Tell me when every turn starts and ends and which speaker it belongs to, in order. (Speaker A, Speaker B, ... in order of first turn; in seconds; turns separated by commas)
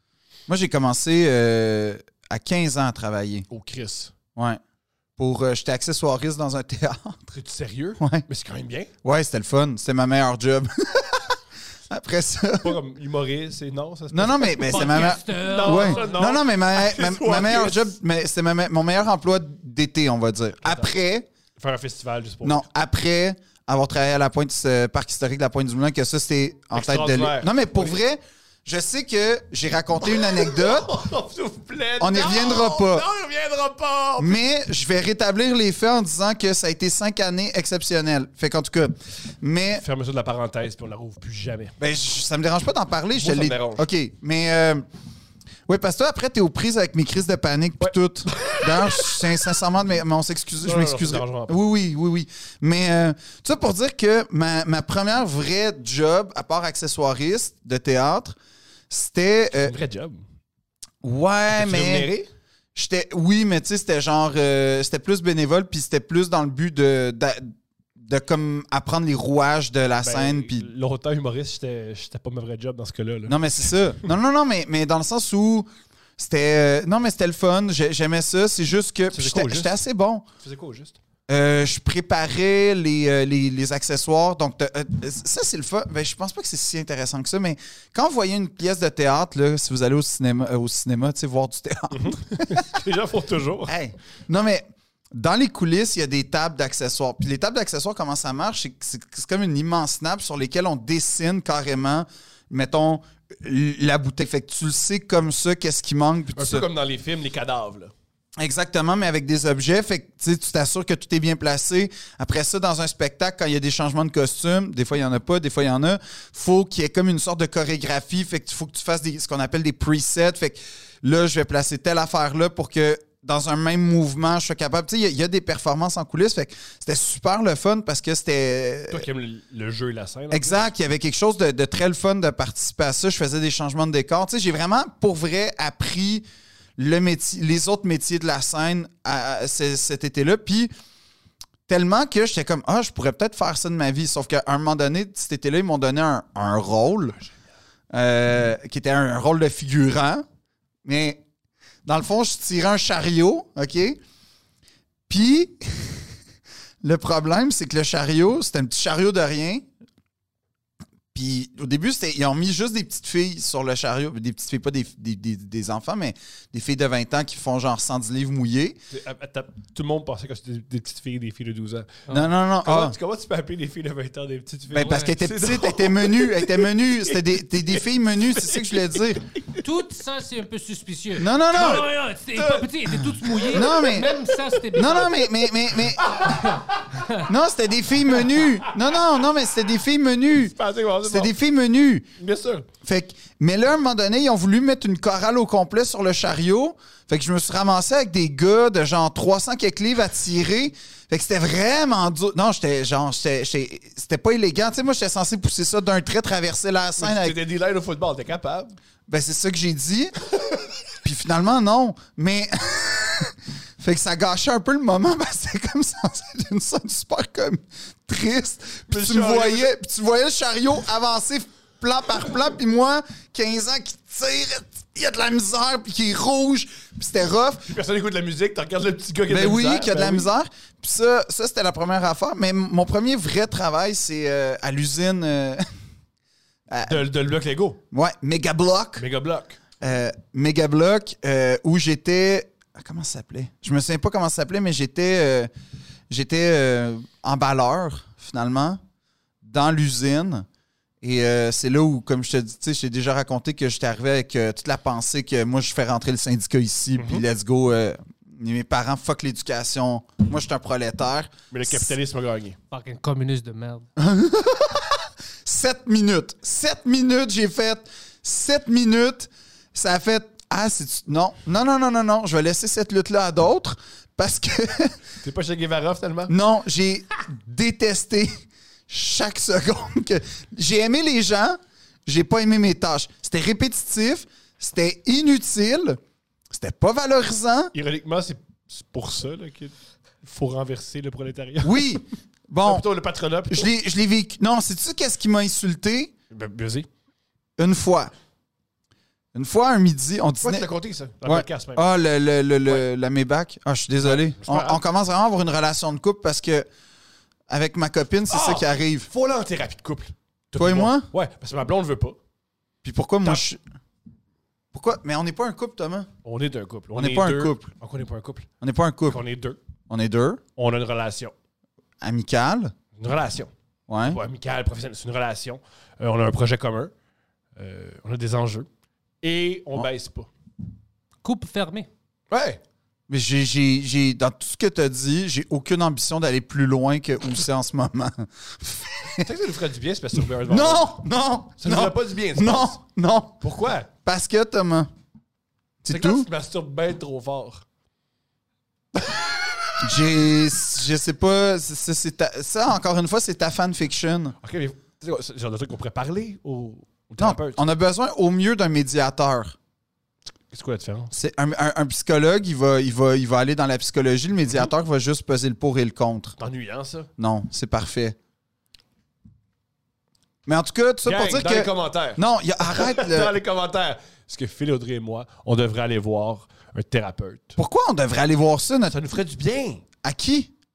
Speaker A: 0.5-3.5, Speaker B: 3.5-4.1, Speaker A: 4.3-4.6, Speaker A: 5.2-7.2, Speaker B: 7.3-8.9, Speaker A: 8.0-8.2, Speaker A: 9.0-11.4, Speaker A: 11.9-12.8, Speaker B: 12.6-17.9, Speaker A: 14.1-21.3, Speaker C: 14.7-16.2, Speaker B: 20.6-20.9, Speaker B: 21.6-22.6, Speaker A: 22.4-30.9, Speaker B: 26.7-28.0, Speaker B: 30.0-34.4, Speaker A: 32.0-33.0, Speaker A: 34.2-39.8, Speaker B: 39.8-41.8, Speaker A: 41.8-44.9, Speaker B: 43.1-43.9, Speaker A: 45.7-58.4, Speaker B: 47.8-49.4, Speaker B: 50.6-51.6, Speaker A: 58.9-59.8, Speaker B: 59.5-60.2, Speaker A: 61.0-62.1, Speaker B: 61.5-62.3, Speaker A: 62.8-70.7, Speaker B: 70.0-73.4, Speaker A: 73.3-80.2, Speaker B: 79.1-79.7, Speaker B: 80.4-81.0, Speaker A: 81.3-92.7, Speaker B: 91.9-93.7, Speaker A: 93.7-106.7, Speaker B: 106.4-107.9, Speaker A: 108.4-129.1, Speaker B: 128.9-130.7, Speaker A: 130.3-136.2, Speaker A: 136.8-140.7, Speaker A: 141.7-147.2, Speaker A: 147.9-150.2, Speaker A: 150.8-151.2, Speaker A: 151.8-154.0, Speaker A: 155.1-156.1, Speaker A: 156.8-159.7, Speaker A: 161.1-168.8, Speaker B: 168.9-172.1, Speaker A: 172.1-173.0, Speaker B: 172.6-179.6, Speaker A: 174.7-179.2, Speaker C: 179.6-185.3, Speaker A: 181.2-181.9, Speaker B: 181.6-184.6, Speaker A: 183.5-184.2, Speaker A: 184.7-186.2, Speaker B: 185.8-187.2, Speaker C: 186.2-187.3, Speaker A: 187.2-192.1, Speaker B: 188.1-189.0, Speaker B: 190.3-191.3, Speaker B: 192.2-192.7, Speaker A: 192.8-207.4, Speaker B: 207.0-208.8, Speaker A: 209.1-210.2, Speaker A: 211.0-227.7, Speaker B: 218.9-219.7, Speaker B: 227.7-230.3, Speaker A: 229.3-235.7, Speaker A: 236.7-237.0, Speaker B: 236.9-237.8, Speaker A: 237.9-239.0, Speaker B: 239.0-239.6, Speaker A: 239.8-245.5, Speaker A: 246.1-248.8, Speaker A: 249.4-250.5, Speaker A: 251.0-261.9, Speaker B: 257.0-257.2, Speaker B: 261.5-262.6, Speaker C: 262.7-263.9, Speaker A: 264.0-275.0, Speaker B: 275.2-276.3, Speaker A: 276.3-278.3, Speaker A: 278.9-286.0, Speaker A: 286.5-287.7, Speaker B: 287.7-292.0, Speaker A: 291.6-292.9, Speaker B: 292.6-293.7, Speaker A: 293.5-296.1, Speaker B: 296.3-296.9, Speaker A: 297.6-298.1, Speaker A: 299.3-300.7, Speaker B: 300.4-301.9, Speaker A: 301.2-306.7, Speaker B: 304.0-304.8, Speaker A: 307.5-309.1, Speaker B: 308.3-312.2, Speaker A: 310.6-311.1, Speaker A: 312.8-313.6, Speaker A: 314.7-316.1, Speaker B: 316.2-318.5, Speaker A: 316.9-317.7, Speaker A: 318.6-319.2, Speaker B: 319.1-319.6, Speaker A: 319.9-320.4, Speaker B: 320.6-321.3, Speaker A: 322.0-322.7, Speaker B: 323.0-323.5, Speaker A: 323.9-324.2, Speaker B: 324.1-326.9, Speaker B: 327.6-328.7, Speaker B: 329.2-330.3, Speaker C: 331.2-331.9, Speaker B: 332.3-332.6, Speaker A: 333.1-339.3, Speaker B: 339.2-340.9, Speaker A: 340.4-343.4, Speaker B: 341.6-342.8, Speaker B: 343.4-343.9, Speaker A: 344.1-344.9, Speaker A: 345.8-346.3, Speaker B: 345.9-347.6, Speaker B: 348.9-349.8, Speaker A: 349.8-354.4, Speaker B: 354.4-357.6, Speaker A: 357.2-359.6, Speaker B: 360.5-361.1, Speaker A: 361.1-366.4, Speaker B: 366.4-367.1, Speaker A: 367.2-368.2, Speaker A: 370.5-373.3, Speaker B: 371.1-377.6, Speaker A: 377.6-379.0, Speaker B: 378.9-379.8, Speaker A: 380.0-380.5